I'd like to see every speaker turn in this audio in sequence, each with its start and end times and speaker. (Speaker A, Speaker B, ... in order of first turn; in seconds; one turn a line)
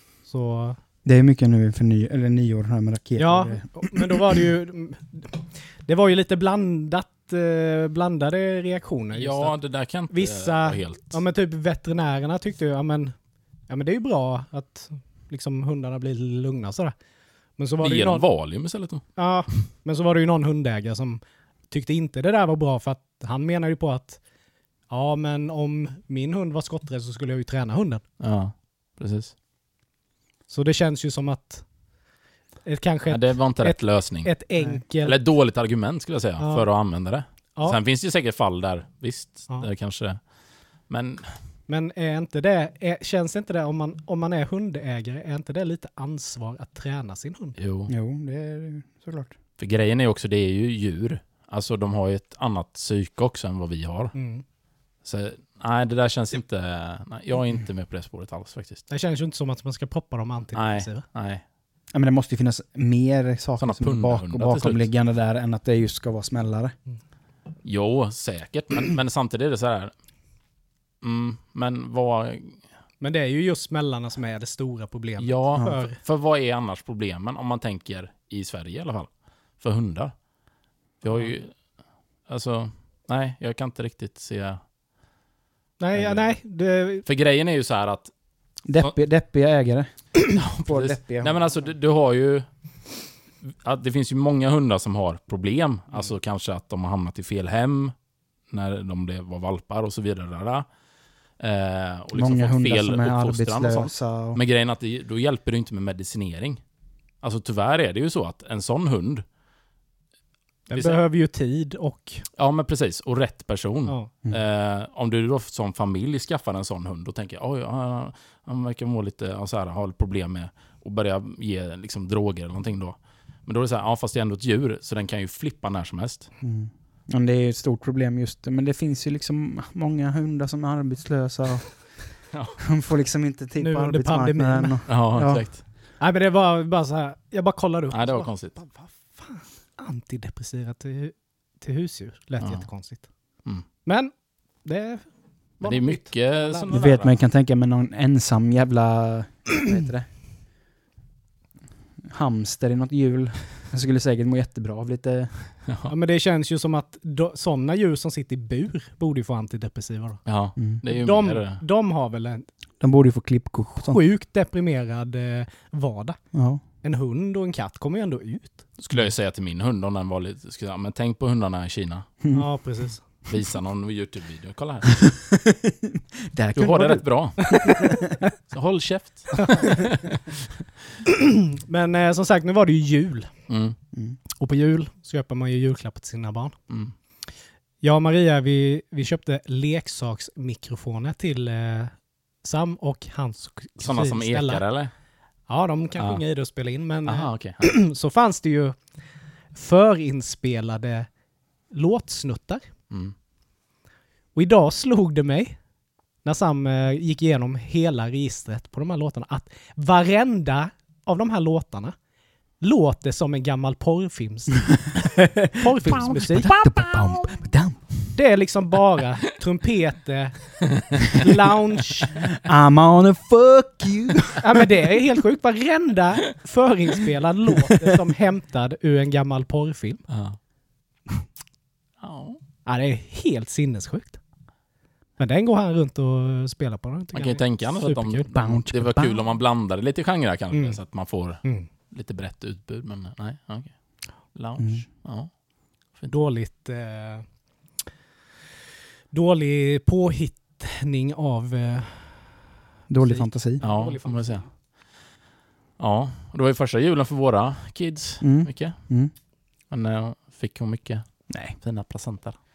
Speaker A: 0.2-0.8
Speaker B: 1.0-4.3
Speaker A: 3.2-16.9
Speaker C: 9.1-11.2
Speaker A: 17.6-18.3
Speaker C: 17.8-19.6
Speaker A: 19.1-24.2
Speaker A: 24.9-28.0
Speaker C: 28.2-29.3
Speaker A: 30.5-31.7
Speaker A: 32.6-35.2
Speaker C: 33.1-34.4
Speaker B: 34.6-34.8
Speaker C: 35.0-41.4
Speaker A: 36.4-36.7
Speaker A: 41.7-47.6
Speaker C: 47.6-47.9
Speaker B: 47.9-49.4
Speaker C: 49.6-54.2
Speaker A: 54.1-54.4
Speaker C: 55.0-58.9
Speaker A: 58.9-61.0
Speaker C: 60.5-61.4
Speaker B: 61.9-66.7
Speaker C: 63.6-64.9
Speaker C: 67.6-69.9
Speaker C: 71.0-72.6
Speaker A: 73.0-76.0
Speaker C: 75.2-80.3
Speaker C: 81.0-84.7
Speaker A: 85.8-87.0
Speaker C: 85.9-89.0
Speaker B: 88.7-91.4
Speaker C: 90.3-92.5
Speaker C: 93.4-98.0
Speaker C: 98.5-100.7
Speaker C: 101.4-106.6
Speaker B: 102.1-104.4
Speaker C: 107.2-109.2
Speaker A: 110.7-112.2
Speaker C: 110.7-111.0
Speaker C: 112.4-126.3
Speaker B: 126.4-135.5
Speaker C: 132.3-132.6
Speaker A: 133.6-134.8
Speaker C: 134.9-135.6
Speaker A: 136.0-146.8
Speaker C: 137.9-138.6
Speaker C: 142.4-142.7
Speaker C: 145.6-147.1
Speaker B: 146.7-150.1
Speaker B: 152.1-155.5
Speaker C: 155.7-155.9
Speaker A: 155.9-162.5
Speaker C: 160.2-161.6
Speaker B: 162.8-164.0
Speaker A: 163.7-168.8
Speaker B: 166.3-166.6
Speaker C: 168.8-172.7
Speaker B: 172.2-172.5
Speaker A: 172.3-173.0
Speaker C: 173.2-175.3
Speaker B: 175.4-177.8
Speaker C: 176.5-179.9
Speaker A: 177.4-177.7
Speaker A: 181.7-183.5
Speaker C: 183.5-183.8
Speaker B: 183.9-184.2
Speaker A: 184.4-186.5
Speaker C: 186.7-186.9
Speaker A: 187.8-194.7
Speaker C: 193.8-194.9
Speaker A: 195.4-199.0
Speaker C: 195.9-196.2
Speaker C: 197.0-197.6
Speaker A: 199.5-201.1
Speaker A: 201.7-202.7
Speaker C: 202.9-203.1
Speaker A: 204.3-205.6
Speaker A: 206.2-212.0
Speaker A: 212.6-216.5
Speaker B: 215.1-217.9
Speaker C: 216.4-217.1
Speaker A: 218.1-222.1
Speaker B: 222.4-224.4
Speaker A: 224.4-230.0
Speaker C: 230.1-230.4
Speaker C: 232.0-232.4
Speaker A: 232.6-234.2
Speaker A: 235.2-238.3
Speaker C: 237.1-245.3
Speaker B: 238.3-239.2
Speaker A: 240.5-240.8
Speaker A: 241.4-241.7
Speaker B: 244.6-244.8
Speaker C: 245.9-246.2
Speaker A: 246.1-247.3
Speaker A: 249.1-252.4
Speaker B: 252.9-253.6
Speaker A: 253.0-254.5
Speaker C: 253.6-254.7
Speaker C: 255.8-258.9
Speaker B: 258.2-259.1
Speaker C: 259.7-262.4
Speaker B: 261.3-261.6